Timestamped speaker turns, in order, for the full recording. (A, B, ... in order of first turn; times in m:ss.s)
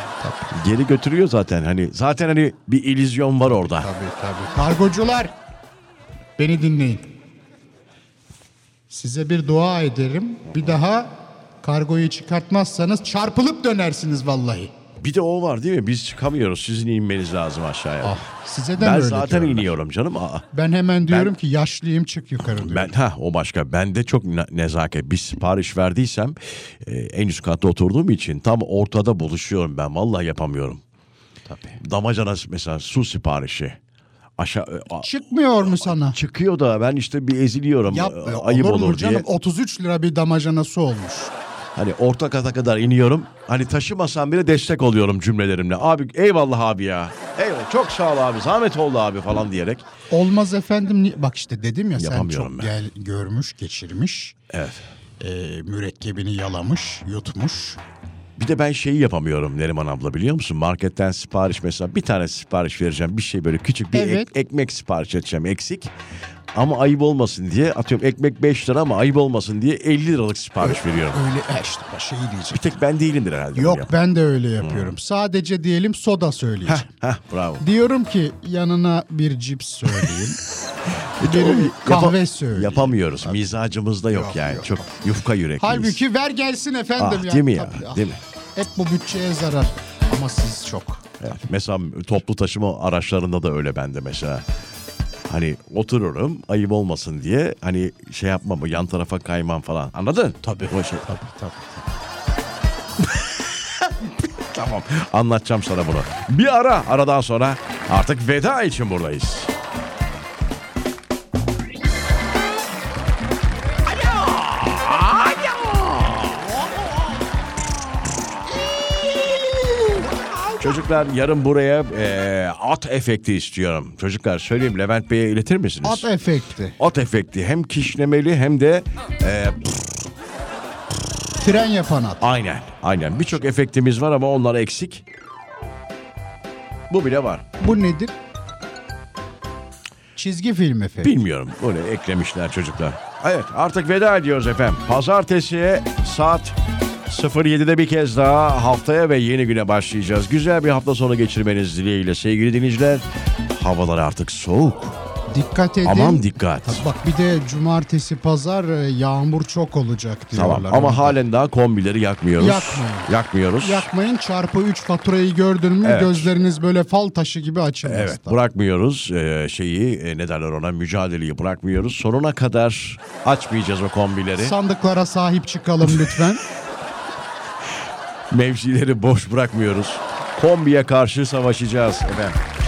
0:00.2-0:00.5 A
0:00.5-0:03.9 B
0:03.6-0:05.3 A
0:06.4-0:07.1 A
0:08.9-0:14.7 A
0:15.0-0:18.2 B
0:18.0-0:19.7 A
0:18.8-0:20.5 B
0:20.5-0:22.9 A
0:21.1-0:21.4 B
0:22.4-0:30.8 B
0:31.5-0:31.8 A
0:31.8-0:33.8 B
0:34.4-0:35.1 B
0:35.0-0:36.2 A
0:35.6-0:39.2 B
0:37.9-0:41.3 A
0:41.7-0:49.8 B
0:50.1-0:54.4 A
0:52.0-0:52.7 B
0:54.5-0:54.8 B
0:55.2-0:57.8 A
0:58.4-1:05.9 B
1:03.9-1:04.3 A
1:06.5-1:11.2 B
1:10.6-1:12.7 A
1:12.5-1:13.9 B
1:13.6-1:16.9 A
1:14.6-1:14.9 B
1:16.6-1:17.6 B
1:17.6-1:20.4 A
1:21.2-1:26.0 B
1:21.2-1:23.4 A
1:24.1-1:24.8 A
1:25.6-1:31.0 A
1:27.0-1:28.2 B
1:31.2-1:34.4 B
1:35.2-1:41.1 B
1:40.4-1:41.8 A
1:44.5-1:49.5 B
1:53.9-1:56.7 B
2:00.6-2:06.1 B
2:05.8-2:06.8 A
2:06.8-2:09.9 B
2:11.4-2:12.2 A
2:12.2-2:15.0 B
2:16.9-2:17.4 B
2:17.6-2:18.1 A
2:20.2-2:21.1 A
2:21.0-2:26.6 B
2:27.1-2:35.0 B
2:35.3-2:41.2 A
2:35.8-2:36.8 B
2:40.3-2:43.9 B
2:42.4-2:48.4 A
2:45.8-2:46.3 B
2:47.8-2:54.6 B
2:54.4-2:56.4 A
2:58.3-3:02.4 B